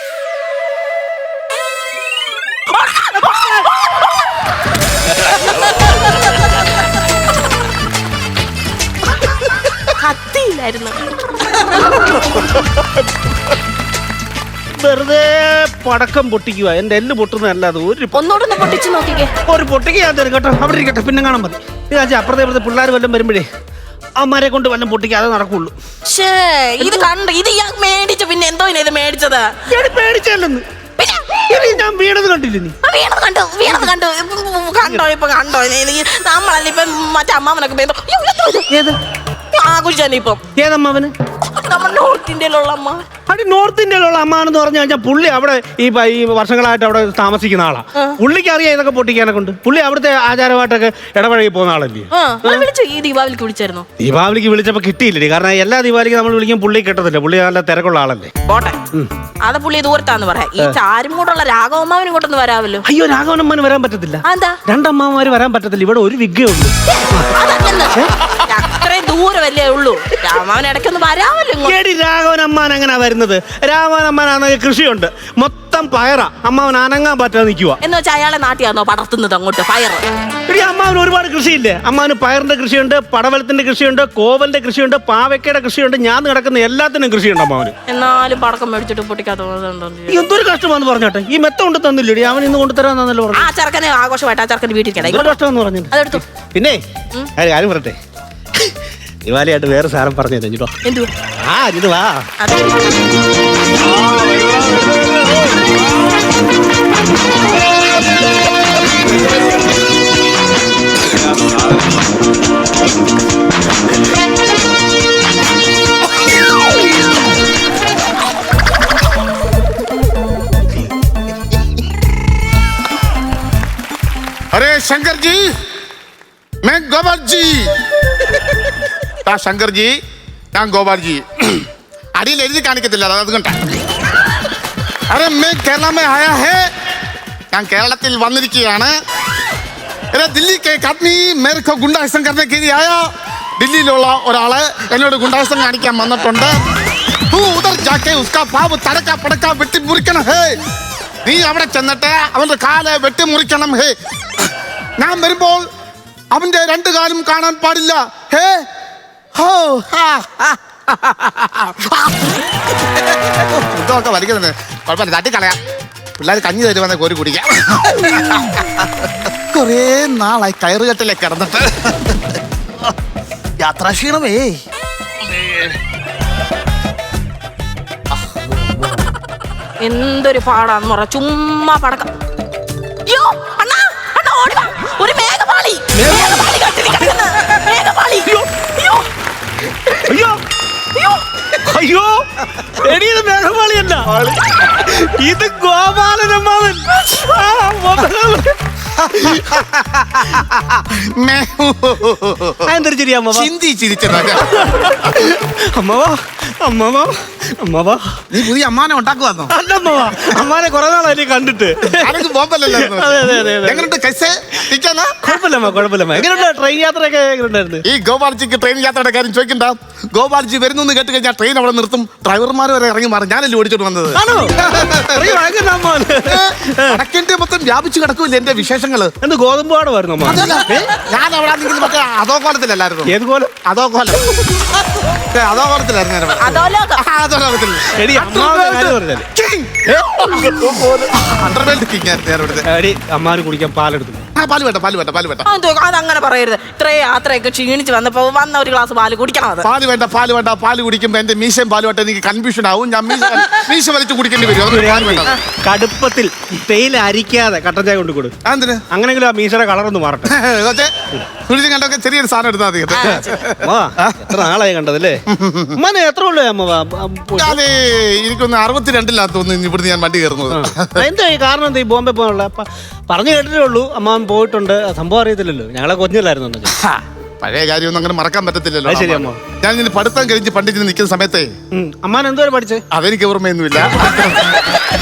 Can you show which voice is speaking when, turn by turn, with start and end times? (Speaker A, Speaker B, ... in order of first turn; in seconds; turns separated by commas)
Speaker A: 2.7-3.6, Speaker A: 9.9-11.0, Speaker B: 14.8-18.2, Speaker A: 18.1-19.3, Speaker B: 19.5-23.5, Speaker B: 24.2-25.8, Speaker A: 26.1-29.5, Speaker B: 29.7-30.6, Speaker A: 31.0-31.4, Speaker B: 31.5-32.8, Speaker A: 32.8-38.7, Speaker B: 38.7-39.0, Speaker A: 39.5-40.4, Speaker B: 40.6-41.1, Speaker A: 41.4-43.0, Speaker B: 43.3-52.7, Speaker A: 52.1-53.9, Speaker B: 54.0-58.3, Speaker A: 58.5-58.8, Speaker A: 59.4-62.8, Speaker B: 62.9-67.4, Speaker A: 64.2-64.6, Speaker A: 67.1-71.8, Speaker B: 71.6-77.8, Speaker A: 77.8-80.0, Speaker B: 80.5-87.7, Speaker A: 87.9-90.3, Speaker B: 90.1-93.5, Speaker A: 93.3-95.4, Speaker B: 95.0-96.8, Speaker A: 95.9-96.2, Speaker B: 97.4-98.0, Speaker B: 98.5-100.7, Speaker A: 100.8-101.1, Speaker B: 101.4-102.3, Speaker A: 102.4-103.0, Speaker C: 124.5-125.4, Speaker C: 126.6-127.7, Speaker C: 129.2-129.9, Speaker C: 130.5-133.6, Speaker C: 135.1-136.7, Speaker C: 137.5-138.9, Speaker C: 140.1-143.1, Speaker C: 143.6-146.6, Speaker C: 147.3-150.6, Speaker C: 151.2-155.7, Speaker C: 156.3-158.7, Speaker C: 159.4-165.6, Speaker C: 166.2-172.9, Speaker C: 173.6-174.6, Speaker C: 175.2-175.8, Speaker A: 179.8-182.1, Speaker A: 183.1-189.1, Speaker B: 185.9-186.5, Speaker B: 190.0-190.4, Speaker A: 190.9-191.2, Speaker B: 191.6-198.6, Speaker C: 199.0-202.7, Speaker B: 199.2-199.6, Speaker B: 202.7-203.5, Speaker C: 203.3-205.1, Speaker B: 204.4-208.2, Speaker C: 208.3-209.5, Speaker B: 209.5-212.2, Speaker C: 211.9-215.4, Speaker B: 212.7-213.9, Speaker B: 215.2-217.8, Speaker C: 217.8-225.4, Speaker B: 224.2-227.0, Speaker C: 226.2-229.1, Speaker B: 229.2-230.9, Speaker C: 230.2-233.1, Speaker B: 233.1-233.5, Speaker C: 233.7-234.3, Speaker C: 235.1-242.7, Speaker A: 236.4-237.0, Speaker B: 237.9-239.3, Speaker B: 242.7-244.3, Speaker C: 244.4-245.5, Speaker A: 245.5-249.7, Speaker C: 249.6-255.4, Speaker B: 254.7-258.3, Speaker C: 258.4-258.8, Speaker B: 258.9-260.3, Speaker C: 260.3-260.9, Speaker C: 261.5-264.5, Speaker A: 262.9-263.4, Speaker B: 263.0-265.2, Speaker C: 265.3-265.8, Speaker B: 265.8-267.6, Speaker C: 267.4-271.1, Speaker B: 270.5-276.8, Speaker C: 276.7-281.5, Speaker B: 278.9-279.4, Speaker B: 281.7-282.8, Speaker C: 282.9-284.8